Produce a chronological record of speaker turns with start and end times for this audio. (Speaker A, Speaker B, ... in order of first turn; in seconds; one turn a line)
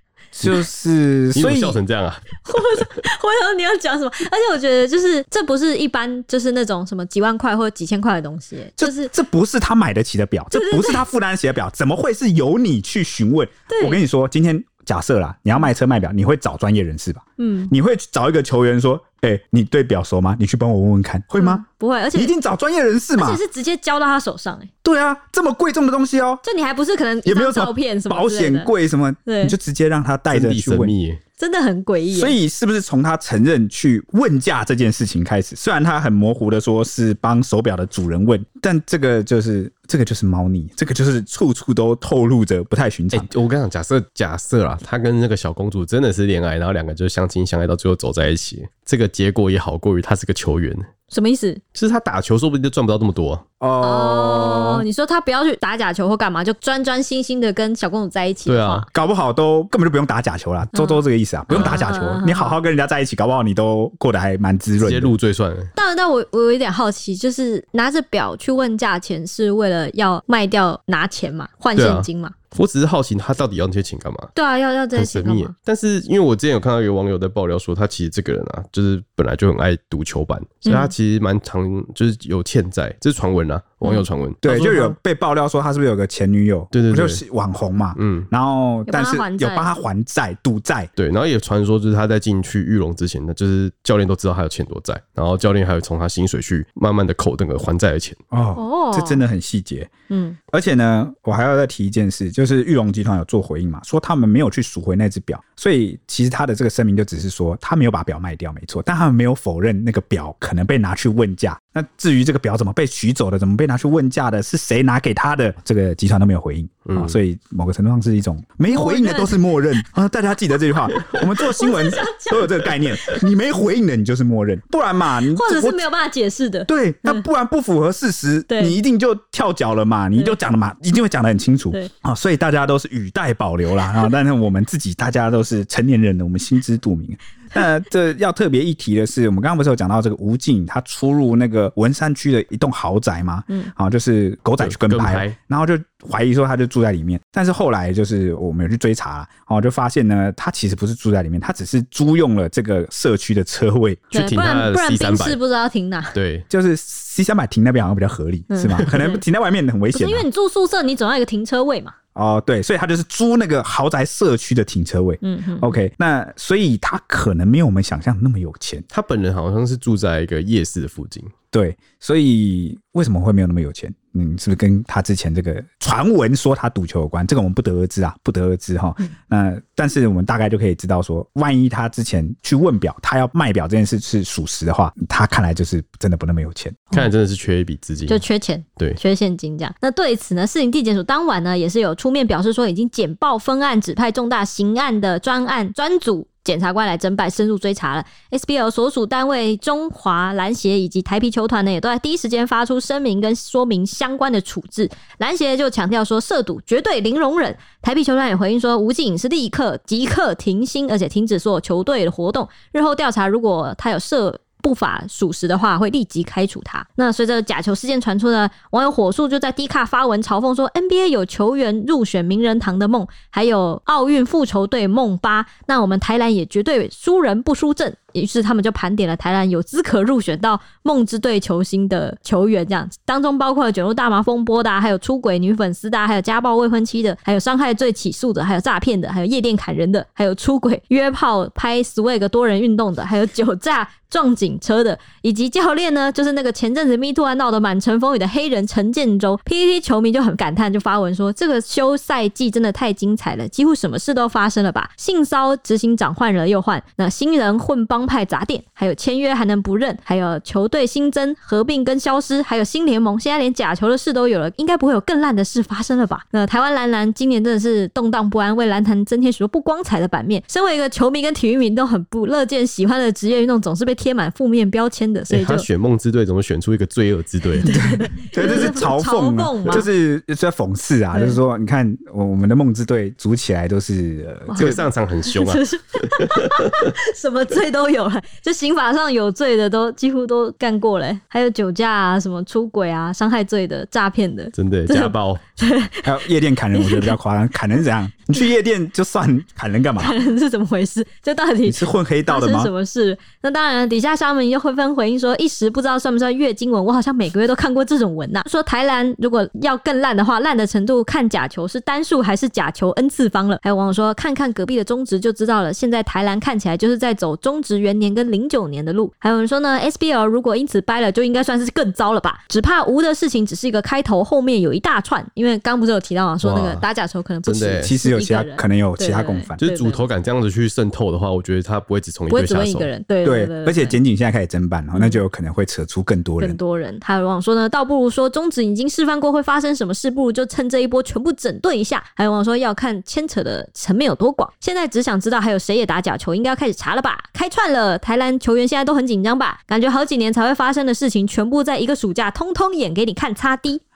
Speaker A: 0.4-1.8
Speaker B: 1.3-2.9
Speaker C: 2.4-9.1
Speaker A: 8.8-23.4
Speaker C: 10.5-11.0
Speaker C: 13.7-14.0
Speaker C: 17.4-17.7
Speaker C: 21.4-22.4
Speaker C: 23.2-24.7
Speaker A: 24.8-26.4
Speaker C: 26.4-28.7
Speaker A: 27.2-30.9
Speaker C: 29.2-29.5
Speaker B: 30.3-31.2
Speaker C: 31.4-32.4
Speaker A: 32.1-43.3
Speaker B: 43.1-50.9
Speaker C: 51.1-51.6
Speaker B: 51.7-53.4
Speaker A: 53.6-54.9
Speaker C: 53.8-58.9
Speaker B: 58.5-58.9
Speaker A: 58.9-65.1
Speaker C: 60.7-62.5
Speaker B: 61.5-61.8
Speaker B: 64.8-65.7
Speaker C: 65.7-72.3
Speaker B: 71.8-74.3
Speaker C: 74.3-75.5
Speaker B: 74.9-85.0
Speaker C: 80.6-80.9
Speaker A: 84.4-90.9
Speaker B: 86.7-87.2
Speaker B: 88.0-88.3
Speaker C: 88.9-89.7
Speaker B: 91.0-98.2
Speaker A: 98.3-99.9
Speaker C: 98.5-99.2
Speaker C: 100.1-100.4
Speaker A: 100.5-125.8
Speaker B: 116.9-117.2
Speaker C: 118.7-119.4
Speaker C: 121.4-122.7
Speaker C: 125.3-127.2
Speaker A: 126.7-154.1
Speaker C: 128.5-128.8
Speaker B: 144.6-145.4
Speaker B: 154.1-155.4
Speaker C: 154.1-156.1
Speaker B: 156.1-156.4
Speaker A: 156.5-160.2
Speaker C: 158.5-159.2
Speaker C: 159.9-161.9
Speaker A: 162.1-168.8
Speaker C: 165.2-165.8
Speaker B: 168.9-171.3
Speaker A: 171.5-186.9
Speaker B: 186.9-188.2
Speaker C: 188.1-275.6
Speaker B: 275.3-277.8
Speaker C: 277.6-279.9
Speaker A: 277.6-284.9
Speaker C: 281.1-281.4
Speaker C: 284.5-296.2
Speaker B: 284.5-286.8
Speaker B: 294.5-295.4
Speaker A: 296.0-300.1
Speaker C: 296.7-297.1
Speaker C: 300.0-330.0
Speaker A: 301.6-302.7
Speaker B: 326.4-326.9
Speaker B: 327.4-327.9
Speaker A: 327.8-329.6
Speaker B: 329.6-332.9
Speaker C: 332.3-334.0
Speaker A: 333.2-336.6
Speaker C: 334.9-335.2
Speaker C: 336.4-353.8